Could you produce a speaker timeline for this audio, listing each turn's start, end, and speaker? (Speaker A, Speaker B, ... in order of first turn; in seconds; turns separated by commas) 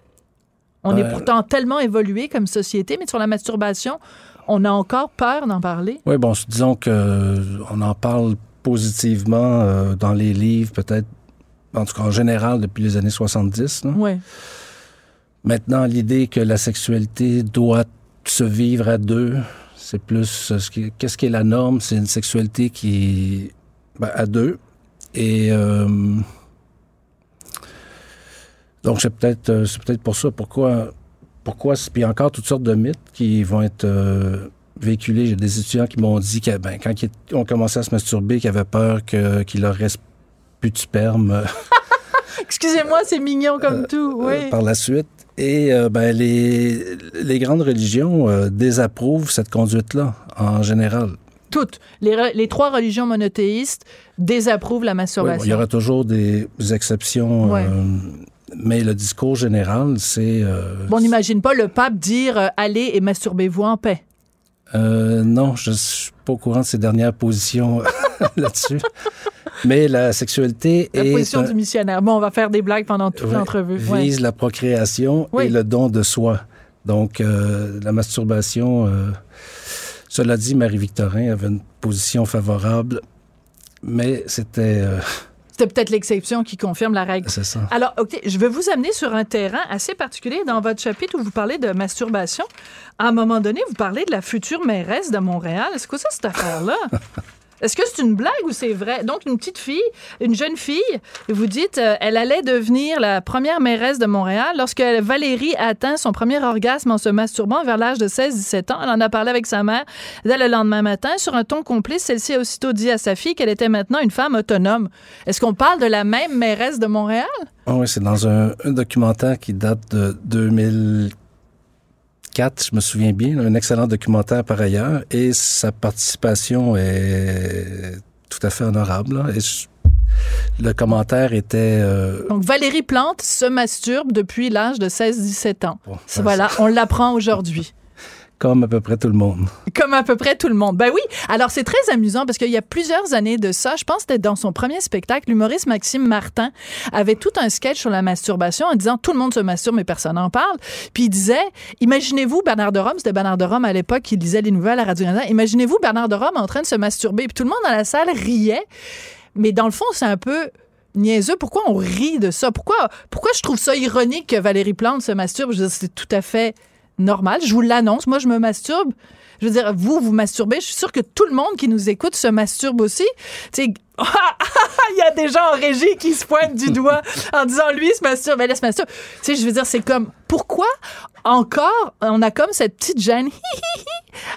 Speaker A: 0.8-6.0, Speaker B: 0.9-1.3, Speaker B: 6.1-11.1, Speaker B: 11.7-14.0, Speaker A: 13.9-14.2, Speaker B: 15.4-24.6, Speaker B: 25.1-26.3, Speaker B: 28.8-30.9, Speaker B: 31.4-40.0, Speaker B: 40.6-41.5, Speaker A: 42.4-44.5, Speaker B: 44.2-51.2, Speaker A: 51.5-55.6, Speaker B: 55.2-61.1, Speaker A: 57.4-57.7, Speaker A: 60.9-64.0, Speaker B: 64.7-68.9, Speaker B: 69.6-71.5, Speaker A: 71.0-74.1, Speaker B: 73.2-79.2, Speaker B: 80.1-83.0, Speaker B: 83.8-85.2, Speaker A: 85.6-92.5, Speaker B: 87.2-87.7, Speaker A: 93.0-96.9, Speaker A: 97.6-117.5, Speaker B: 117.7-121.1, Speaker B: 122.3-129.7, Speaker B: 130.6-132.3, Speaker A: 132.3-137.7, Speaker B: 135.9-136.6, Speaker B: 138.4-139.5, Speaker A: 139.7-158.7, Speaker A: 159.3-180.7, Speaker A: 181.2-184.0